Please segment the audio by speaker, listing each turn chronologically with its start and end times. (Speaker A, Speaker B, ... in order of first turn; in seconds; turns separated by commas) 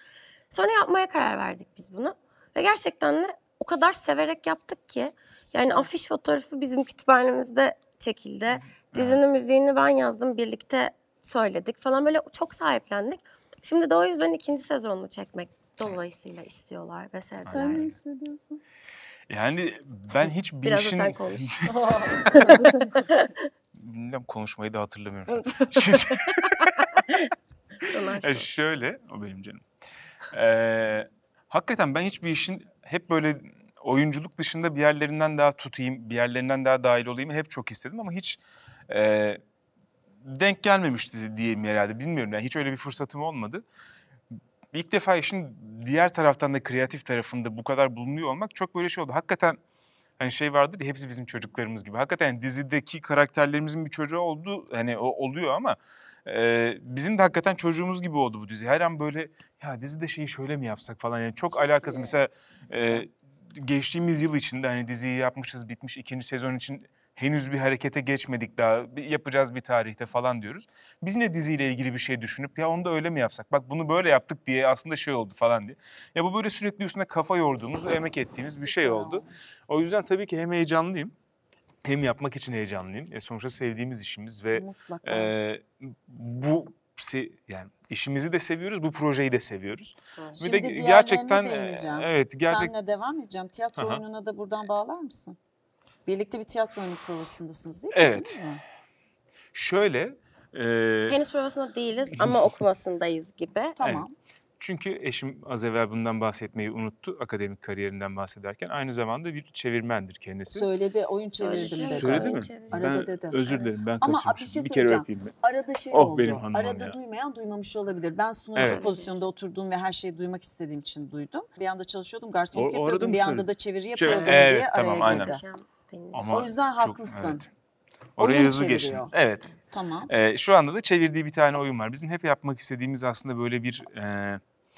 Speaker A: 0.5-17.9, Speaker B: 8.9-9.2, Speaker B: 17.5-18.0, Speaker C: 17.5-18.6, Speaker B: 19.3-22.2, Speaker A: 20.6-21.6, Speaker C: 21.7-22.9, Speaker A: 22.3-23.3, Speaker B: 23.8-26.7, Speaker A: 25.3-26.8, Speaker A: 27.9-28.5, Speaker B: 28.2-29.6, Speaker B: 30.3-39.4, Speaker B: 40.2-43.6, Speaker B: 44.7-49.6, Speaker B: 50.2-81.1, Speaker C: 61.5-63.0, Speaker C: 78.4-79.3, Speaker B: 81.8-92.7, Speaker C: 84.5-85.3, Speaker C: 90.4-95.4, Speaker B: 93.8-94.0, Speaker C: 96.1-98.6, Speaker B: 97.9-98.4, Speaker B: 99.5-101.2, Speaker A: 101.1-103.8, Speaker B: 102.2-102.5, Speaker C: 103.8-104.1, Speaker B: 104.6-110.7, Speaker C: 110.5-125.4, Speaker A: 111.4-113.0, Speaker B: 111.7-115.3, Speaker B: 115.9-117.0, Speaker B: 118.6-118.8, Speaker A: 118.6-119.2, Speaker B: 122.5-125.3, Speaker A: 124.1-126.3, Speaker B: 126.1-127.5, Speaker C: 126.3-127.5, Speaker B: 128.2-129.5, Speaker C: 128.2-129.1, Speaker C: 129.7-130.1, Speaker B: 130.1-134.4